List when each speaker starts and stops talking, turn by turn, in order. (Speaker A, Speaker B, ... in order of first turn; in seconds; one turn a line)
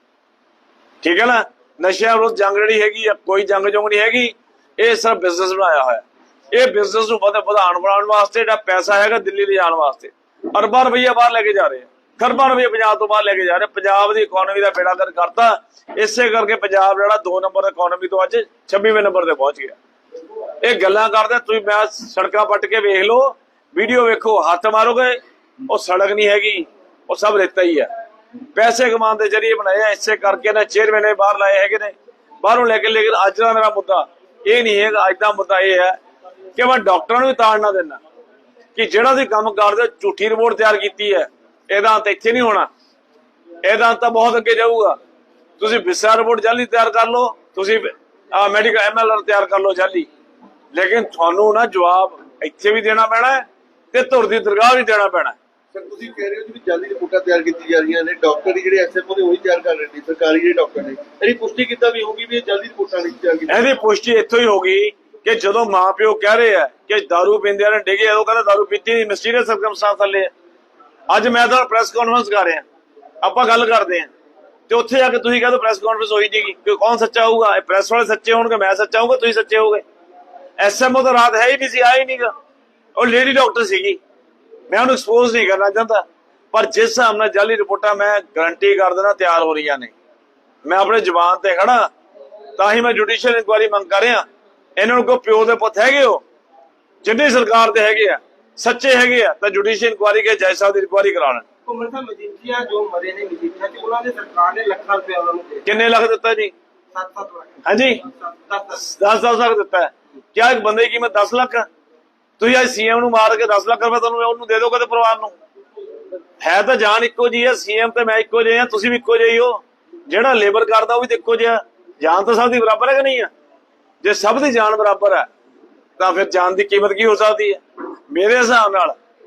Speaker A: 1.0-19.8
Speaker A: 20.6-27.9
Speaker A: 28.5-36.0
Speaker A: 36.5-38.0
Speaker A: 38.7-42.7
Speaker A: 43.6-45.0
Speaker A: 45.6-50.1
Speaker A: 50.7-55.4
Speaker B: 55.7-61.1
Speaker B: 63.1-63.6
Speaker A: 63.5-70.3
Speaker A: 71.1-72.6
Speaker A: 73.2-74.1
Speaker A: 74.7-79.8
Speaker A: 80.6-82.3
Speaker A: 83.0-84.0
Speaker A: 84.7-89.9
Speaker A: 90.6-91.9
Speaker A: 92.6-94.2
Speaker A: 94.8-96.2
Speaker A: 97.0-101.4
Speaker C: 101.7-105.7
Speaker A: 105.7-106.5
Speaker C: 106.9-108.9
Speaker A: 107.6-108.0
Speaker A: 108.7-111.7
Speaker A: 112.4-115.3
Speaker A: 116.4-123.3
Speaker A: 124.0-125.3
Speaker A: 126.0-128.9